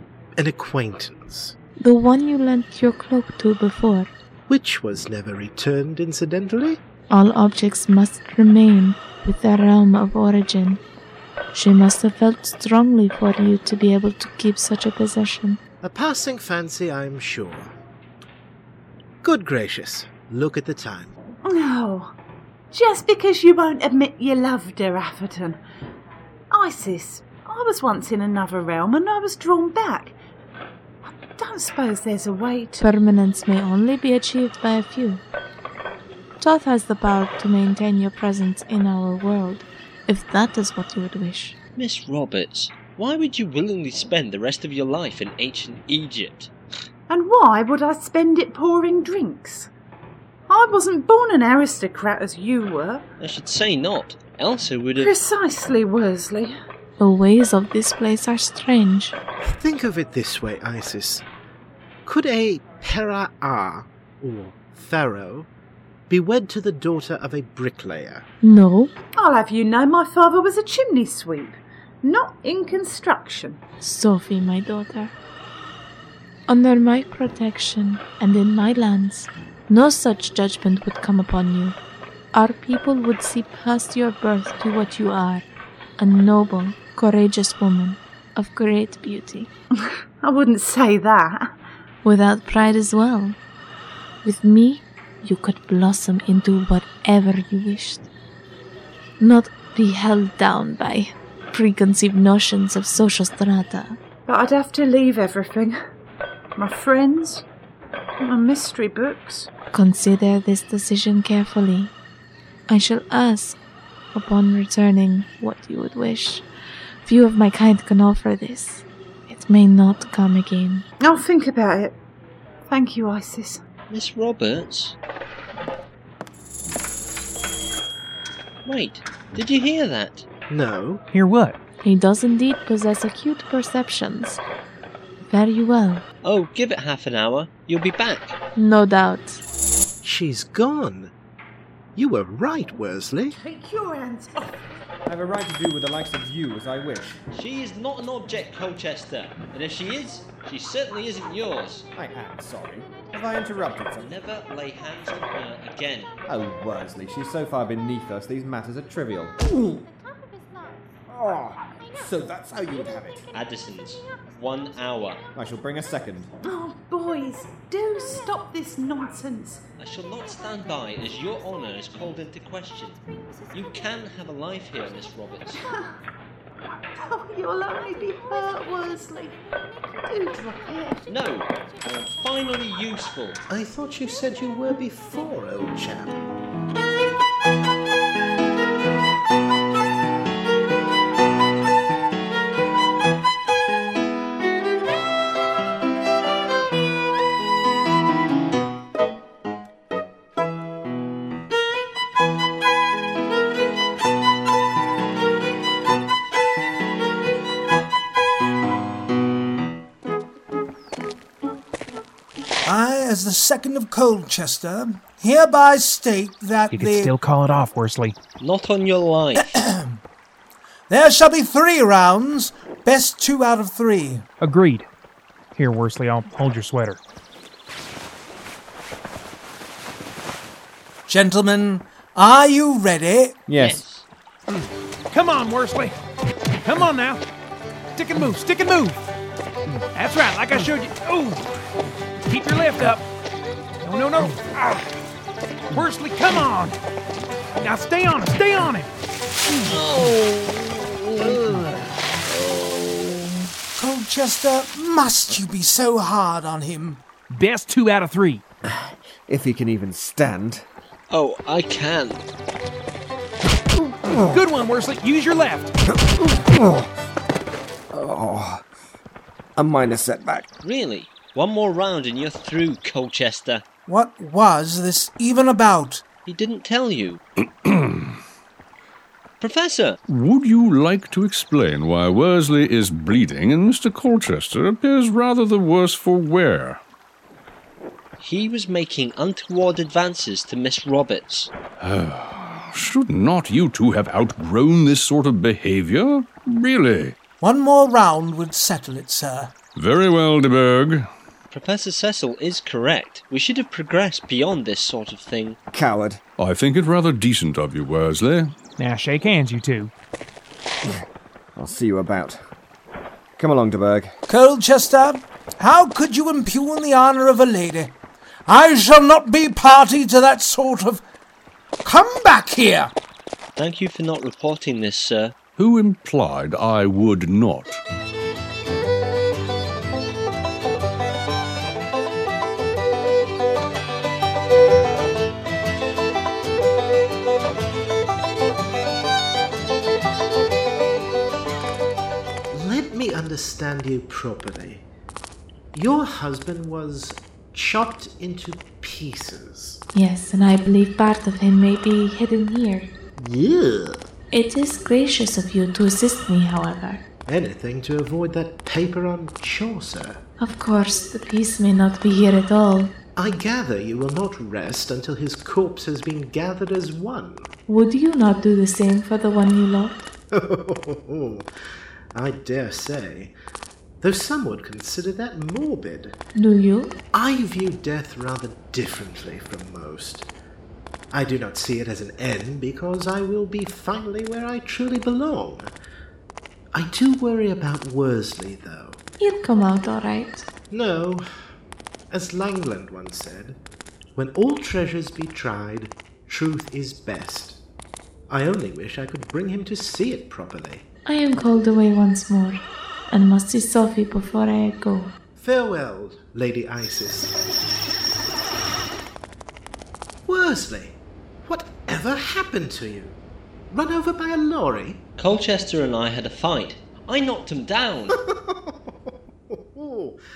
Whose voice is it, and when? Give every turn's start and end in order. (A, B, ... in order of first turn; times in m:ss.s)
0:00.4-0:01.6 A
0:01.8-0:04.1 B
0:04.5-0:06.8 A
0:07.1-0:10.8 B
0:11.5-0:15.6 B
0:15.8-0:17.7 A
0:19.2-0:21.1 A
0:21.4-0:22.1 C
0:22.7-0:25.6 C
0:26.5-0:30.1 C
0:31.0-0:32.8 C
0:32.8-0:35.2 B
0:36.4-0:41.6 B
0:41.8-0:46.5 D
0:47.1-0:49.7 C
0:50.5-0:53.0 C
0:53.2-0:55.2 D
0:55.0-0:56.5 C
0:57.0-0:59.2 B
0:59.4-1:01.2 A
1:02.0-1:05.5 A
1:06.1-1:08.2 A
1:08.4-1:08.9 B
1:09.2-1:13.6 C
1:13.8-1:15.1 B
1:16.5-1:21.8 B
1:22.3-1:25.4 B
1:26.0-1:29.5 B
1:29.7-1:31.5 C
1:32.0-1:33.4 B
1:34.2-1:38.1 B
1:39.2-1:44.0 B
1:44.3-1:45.8 C
1:46.6-1:47.4 C
1:48.2-1:49.5 C
1:49.7-1:51.9 B
1:52.7-1:53.6 B
1:54.1-1:56.4 B
1:57.0-2:00.8 B
2:01.0-2:02.0 C
2:02.7-2:03.6 C
2:03.9-2:05.0 D
2:08.6-2:10.2 D
2:10.5-2:11.0 A
2:11.1-2:11.6 E
2:11.8-2:14.4 B
2:15.3-2:16.0 B
2:16.2-2:18.4 D
2:18.6-2:19.4 B
2:20.0-2:21.1 A
2:22.0-2:23.4 A
2:23.3-2:24.6 C
2:25.0-2:27.2 F
2:27.3-2:31.9 D
2:31.9-2:34.1 F
2:34.0-2:36.1 D
2:36.3-2:39.9 F
2:41.1-2:43.3 F
2:43.3-2:45.2 D
2:45.3-2:46.3 F
2:46.4-2:49.6 C
2:49.8-2:53.0 D
2:53.5-2:55.6 D
2:55.6-2:55.9 C
2:57.0-2:59.4 C
3:00.0-3:01.0 C
3:01.1-3:03.4 D
3:03.5-3:06.2 A
3:32.6-3:37.1 G
3:36.7-3:38.2 E
3:38.4-3:39.5 D
3:39.6-3:40.0 G
3:40.9-3:44.2 G
3:44.4-3:44.9 E
3:45.5-3:47.0 E
3:51.1-3:53.4 G
3:53.5-3:53.8 F
3:53.6-3:54.1 D
3:55.1-3:55.9 E
3:56.6-3:57.2 E
3:58.0-3:59.0 E
3:59.9-4:01.4 E
4:02.2-4:03.0 E
4:03.8-4:04.9 E
4:05.7-4:06.8 E
4:07.6-4:08.9 E
4:09.7-4:11.7 D
4:12.4-4:13.2 D
4:13.8-4:17.0 G
4:15.3-4:15.6 H
4:17.3-4:18.4 E
4:18.7-4:20.6 F
4:21.1-4:22.2 D
4:24.1-4:25.7 E
4:24.1-4:24.4 F
4:26.2-4:26.9 F
4:27.9-4:28.6 F
4:29.6-4:30.4 F
4:30.6-4:33.6 D
4:33.9-4:36.0 G
4:36.2-4:37.2 D
4:39.4-4:40.0 D
4:40.1-4:46.8 H
4:48.2-4:51.5 D
4:51.8-4:57.1 H
4:57.4-4:59.6 G
4:59.8-5:01.0 H
5:01.5-5:05.6 D
5:05.7-5:06.2 F
5:06.4-5:08.5 H
5:08.8-5:09.9 E
5:11.6-5:12.4 F
5:13.4-5:14.1 F
5:14.3-5:17.9 G
5:18.5-5:21.0 G
5:21.8-5:22.9 G
5:23.6-5:25.3 D
5:25.6-5:27.8 H
5:42.5-5:44.8 A
5:45.7-5:49.8 A
5:49.9-5:52.9 B
5:53.2-5:54.0 A
5:54.3-5:57.0 B
5:57.2-6:00.2 A
6:00.4-6:02.9 B
6:03.2-6:07.5 A
6:07.7-6:10.0 B
6:10.3-6:11.5 A
6:12.1-6:13.3 A
6:14.0-6:16.1 A
6:16.3-6:16.9 B
6:17.1-6:20.3 A
6:21.1-6:25.7 A
6:26.7-6:29.0 A
6:29.2-6:30.4 B
6:30.7-6:31.2 A
6:32.1-6:33.6 A
6:34.2-6:37.6 A
6:38.3-6:40.8 A
6:41.0-6:45.1 B
6:45.4-6:47.3 A
6:50.3-6:53.2 A
6:53.7-6:55.0 A
6:55.2-6:58.1 D
6:58.3-6:58.7 A
6:59.5-7:00.2 A